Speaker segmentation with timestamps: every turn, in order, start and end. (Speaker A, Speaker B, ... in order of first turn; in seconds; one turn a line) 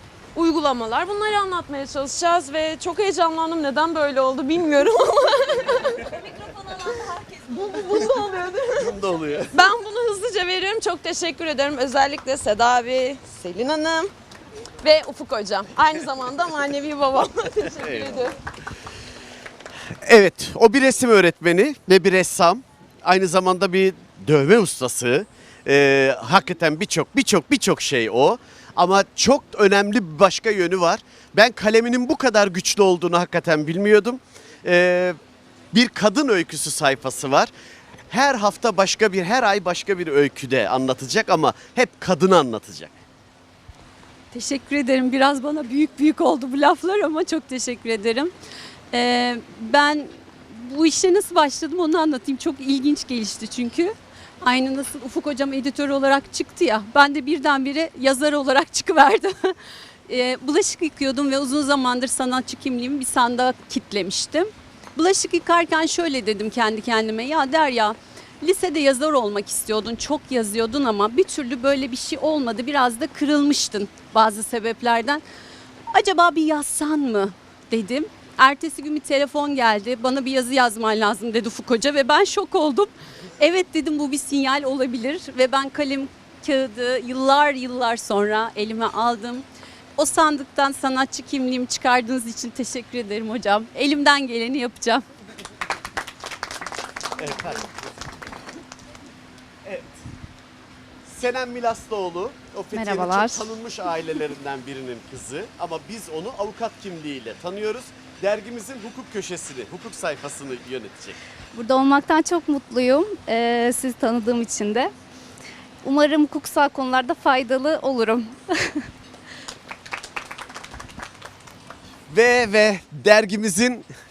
Speaker A: 0.3-6.0
Speaker A: 7.5-8.9
Speaker B: 8.8-9.5
Speaker A: 9.5-14.1
Speaker A: 14.8-18.3
Speaker B: 17.8-18.1
Speaker B: 20.0-35.2
Speaker B: 35.7-37.5
Speaker B: 38.1-43.0
Speaker C: 44.3-48.3
Speaker C: 48.9-59.6
Speaker C: 60.1-75.2
Speaker C: 75.9-89.5
Speaker C: 90.0-95.0
Speaker B: 97.2-97.7
Speaker B: 99.6-99.9
Speaker B: 101.1-111.2
Speaker D: 102.7-103.5
Speaker D: 111.5-114.9
Speaker D: 115.8-118.8
Speaker B: 122.1-123.9